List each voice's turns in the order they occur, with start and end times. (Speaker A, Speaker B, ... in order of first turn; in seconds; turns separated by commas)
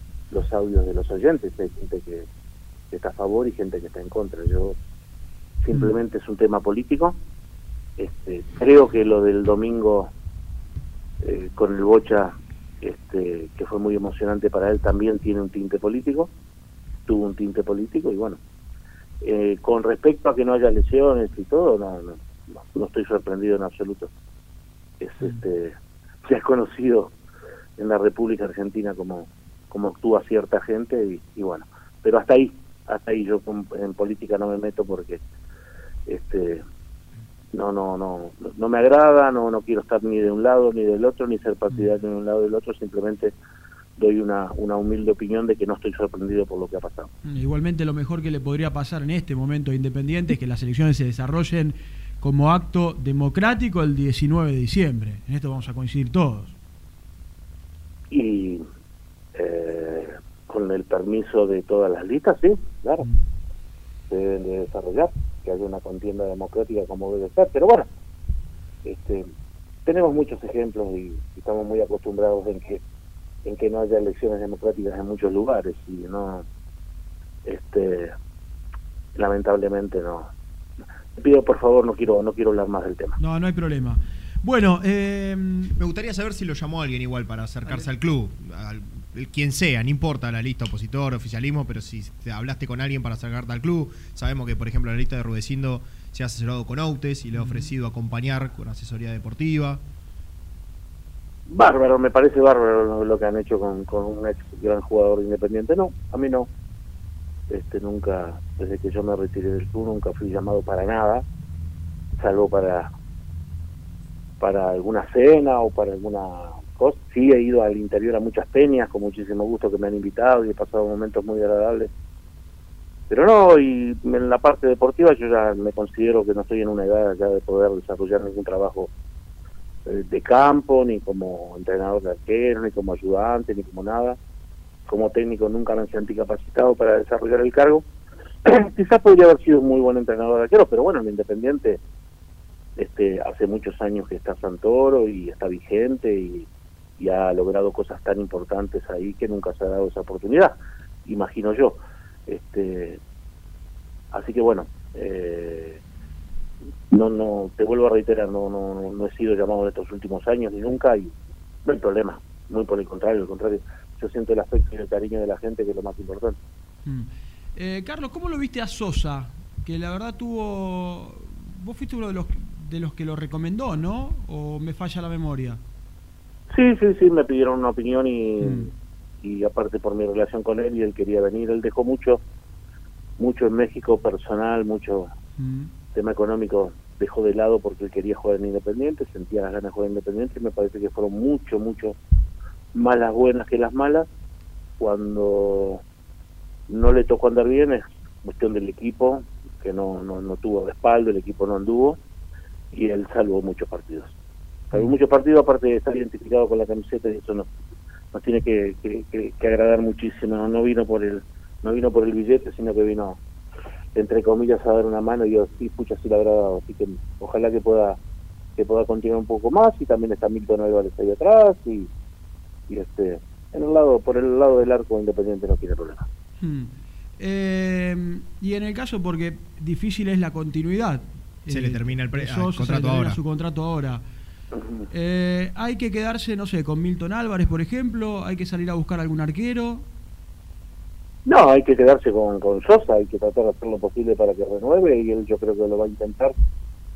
Speaker A: 0.3-2.3, Speaker A: 2.9-4.7, Speaker A: 5.6-7.1, Speaker A: 8.0-10.1, Speaker A: 11.2-16.3, Speaker A: 17.1-18.4, Speaker A: 19.2-22.2, Speaker A: 22.7-24.1, Speaker A: 25.0-25.7, Speaker A: 26.2-27.1, Speaker A: 27.8-35.2, Speaker A: 36.1-36.6, Speaker A: 37.5-43.3, Speaker A: 44.0-47.1, Speaker B: 47.2-56.5, Speaker A: 58.1-58.6, Speaker A: 59.3-63.0, Speaker A: 64.1-67.9, Speaker A: 68.8-69.3, Speaker A: 69.8-72.8, Speaker A: 73.4-76.4, Speaker A: 77.4-78.1, Speaker A: 79.1-80.3, Speaker A: 81.2-83.2, Speaker B: 83.2-85.8, Speaker C: 85.8-99.8, Speaker B: 97.3-97.7, Speaker A: 101.5-106.5, Speaker A: 107.5-111.2, Speaker A: 112.2-112.9, Speaker A: 114.4-121.9, Speaker A: 123.1-128.9, Speaker A: 129.8-134.2, Speaker A: 134.9-137.8, Speaker A: 138.4-141.8, Speaker A: 142.8-146.5, Speaker A: 147.0-150.5, Speaker A: 151.1-153.0, Speaker A: 154.1-155.8, Speaker A: 156.9-161.1, Speaker A: 161.6-166.4, Speaker B: 166.8-175.6, Speaker A: 176.5-178.7, Speaker B: 178.4-178.7, Speaker A: 179.2-182.2, Speaker A: 183.2-185.1, Speaker B: 185.4-185.7, Speaker A: 185.9-191.9, Speaker A: 192.7-194.1, Speaker A: 194.8-195.8, Speaker A: 196.7-202.0, Speaker A: 202.7-204.1, Speaker A: 204.7-207.5, Speaker A: 208.1-213.2, Speaker A: 213.9-218.0, Speaker A: 218.6-221.9, Speaker A: 222.7-226.1, Speaker B: 226.4-234.0, Speaker C: 231.5-233.2, Speaker A: 234.6-234.9, Speaker B: 234.9-239.8, Speaker A: 241.2-246.3